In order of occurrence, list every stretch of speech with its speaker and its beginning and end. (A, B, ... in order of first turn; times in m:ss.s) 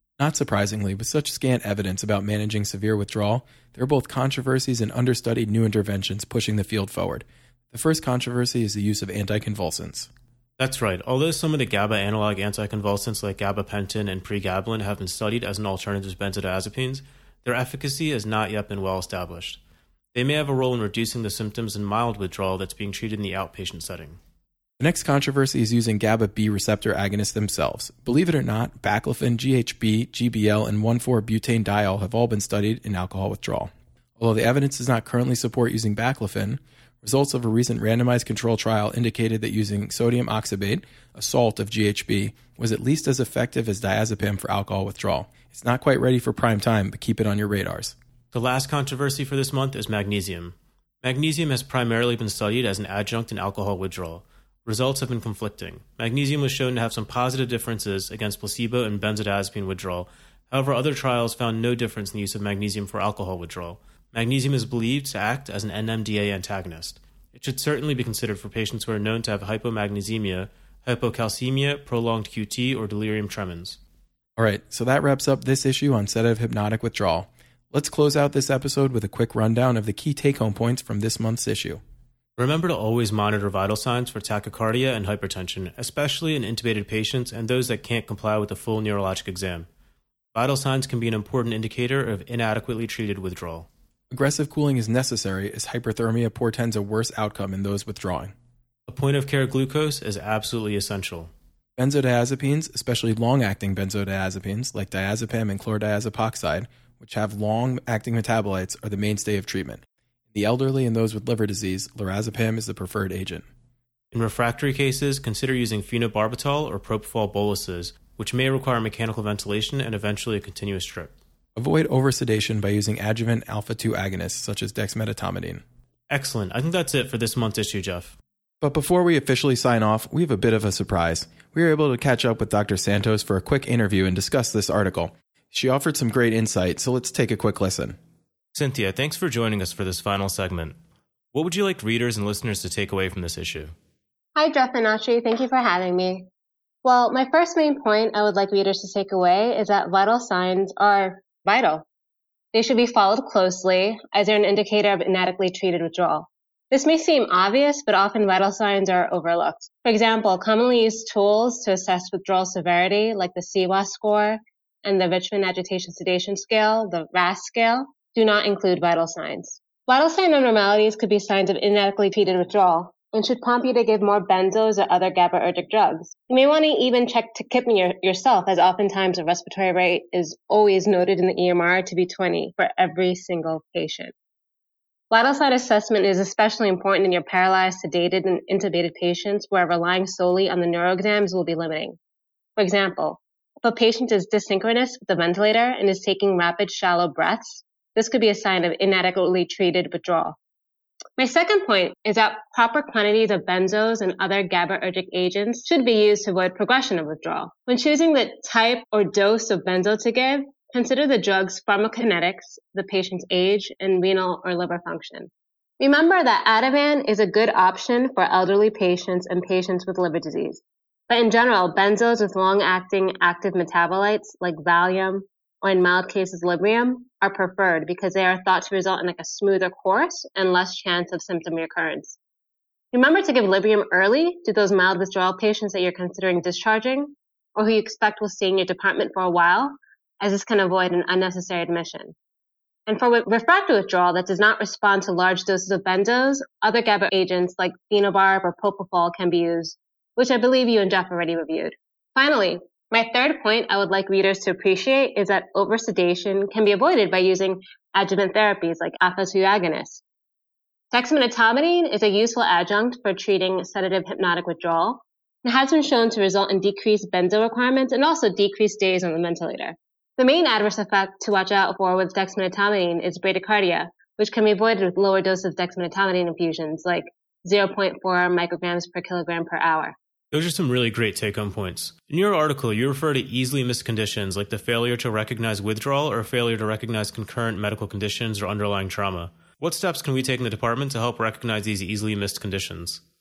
0:00.2-0:10.1 A
0:10.6-0:19.6 B
0:20.1-0:24.2 B
0:24.8-0:48.0 A
0:48.3-1:13.8 B
1:14.4-1:21.8 A
1:22.4-1:29.7 B
1:30.3-1:33.7 B
1:34.1-1:38.3 A
1:38.9-1:41.3 B
1:41.8-1:53.5 A
1:54.1-2:01.1 B
2:01.6-2:05.6 A
2:06.1-2:08.2 B
2:08.6-2:18.0 A
2:18.5-2:20.8 B
2:21.3-2:23.7 B
2:24.4-2:26.3 C
2:26.8-2:31.8 C
2:32.5-3:04.1 C
3:05.1-3:12.0 C
3:12.6-3:20.4 C
3:21.2-3:52.2 C
3:52.9-4:02.2 C
4:02.9-4:20.0 C
4:20.9-4:40.0 C
4:40.3-4:53.0 B